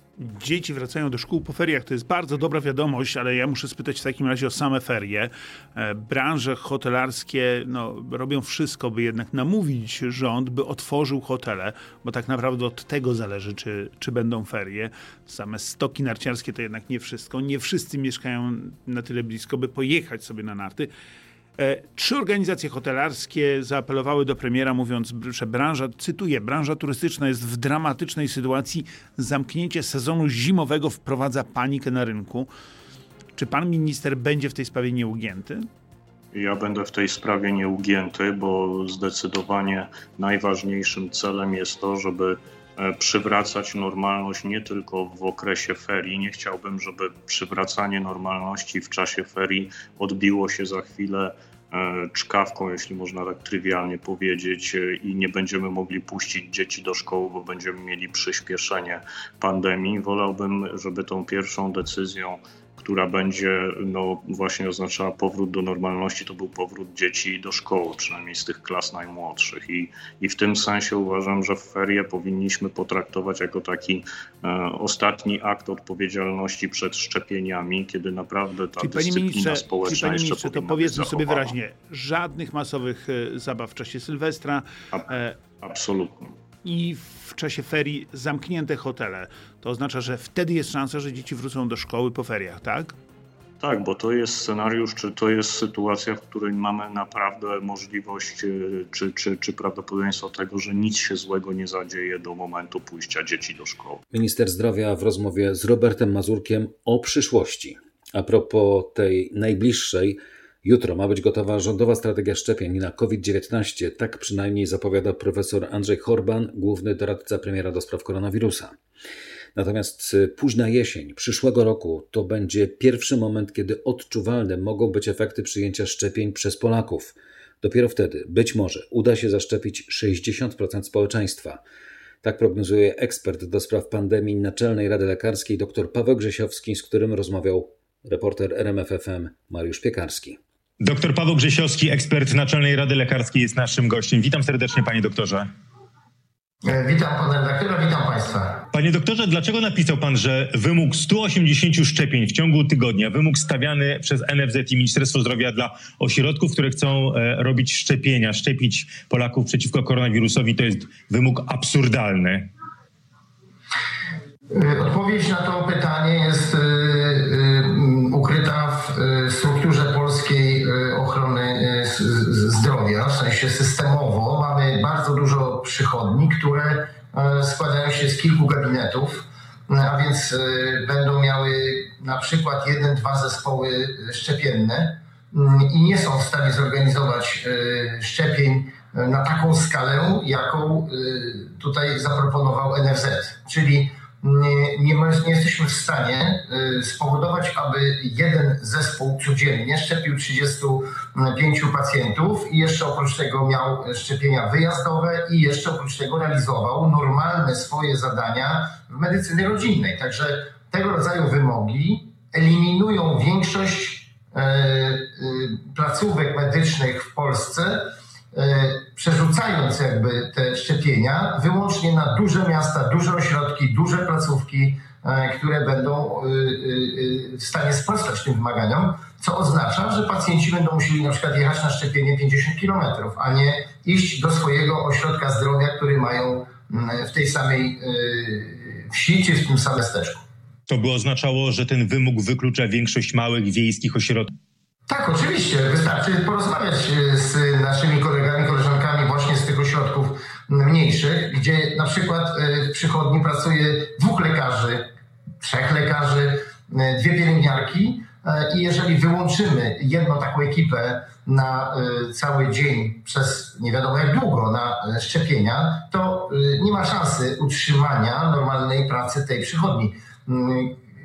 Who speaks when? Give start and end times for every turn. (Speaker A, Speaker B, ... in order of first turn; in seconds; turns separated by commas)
Speaker A: 0.2-20.9, Speaker A: 21.6-32.5, Speaker A: 33.3-35.6, Speaker B: 36.3-81.5, Speaker A: 78.8-85.4, Speaker B: 85.6-86.3, Speaker A: 86.6-93.0, Speaker B: 93.6-104.0, Speaker C: 104.1-118.7, Speaker C: 119.5-131.6, Speaker C: 132.2-140.4, Speaker D: 140.8-145.5, Speaker E: 146.6-148.6, Speaker D: 148.7-162.5, Speaker E: 164.5-240.2, Speaker D: 240.7-244.3, Speaker E: 244.9-254.9, Speaker E: 255.4-270.8